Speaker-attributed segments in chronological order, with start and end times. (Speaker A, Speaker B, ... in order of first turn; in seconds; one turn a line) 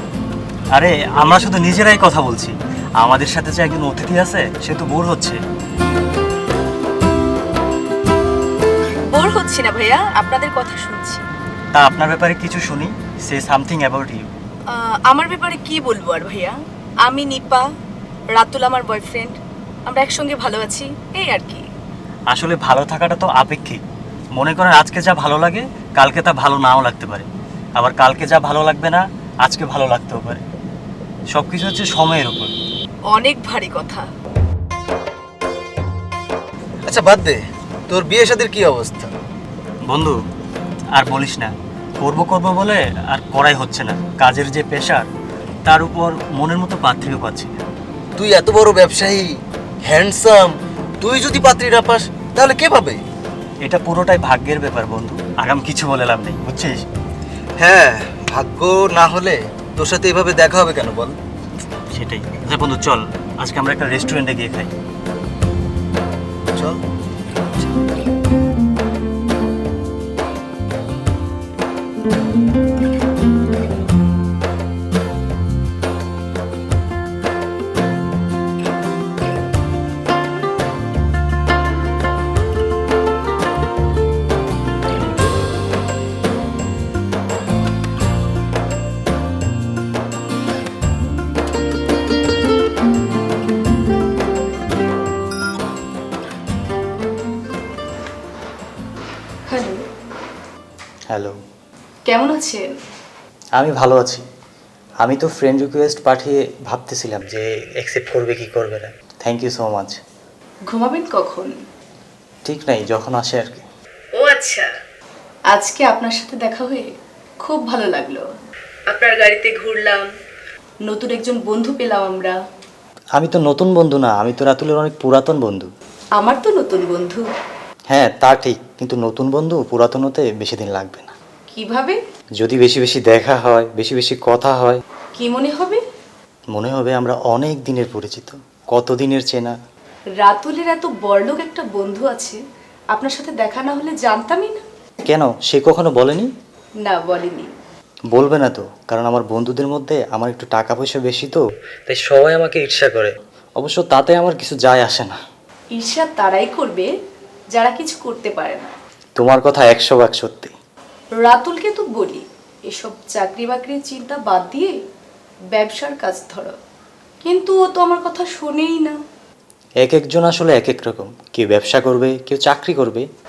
Speaker A: 0.7-5.4
Speaker B: 9.1-11.2
Speaker A: 11.7-14.2
Speaker B: 14.7-17.7
Speaker B: 18.3-21.6
Speaker A: 22.3-23.8
Speaker A: 24.3-30.4
Speaker A: 31.3-32.5
Speaker B: 33.1-34.1
Speaker C: 36.8-39.1
Speaker A: 39.8-40.2
Speaker A: 40.9-45.0
Speaker A: 45.6-47.5
Speaker C: 48.1-53.0
Speaker A: 53.6-56.8
Speaker C: 57.6-61.1
Speaker A: 61.9-64.7
Speaker C: 66.5-66.8
Speaker B: 99.5-99.8
Speaker A: 101.1-101.3
Speaker B: 102.0-102.7
Speaker A: 103.5-104.2
Speaker A: 105.0-110.0
Speaker B: 110.7-111.5
Speaker A: 112.4-113.6
Speaker B: 114.1-114.7
Speaker B: 115.5-116.9
Speaker B: 117.4-118.2
Speaker B: 118.9-120.1
Speaker B: 120.8-122.3
Speaker A: 123.2-125.7
Speaker B: 126.2-127.3
Speaker A: 127.9-131.1
Speaker B: 131.5-132.0
Speaker A: 132.4-134.8
Speaker B: 135.2-135.8
Speaker A: 136.5-139.5
Speaker B: 140.2-142.4
Speaker B: 142.9-144.6
Speaker A: 145.0-146.3
Speaker B: 146.8-147.5
Speaker A: 148.1-155.2
Speaker B: 155.7-156.9
Speaker B: 157.5-158.7
Speaker A: 159.2-160.5
Speaker B: 161.2-164.8
Speaker B: 165.5-166.5
Speaker B: 167.2-169.0
Speaker A: 169.8-173.1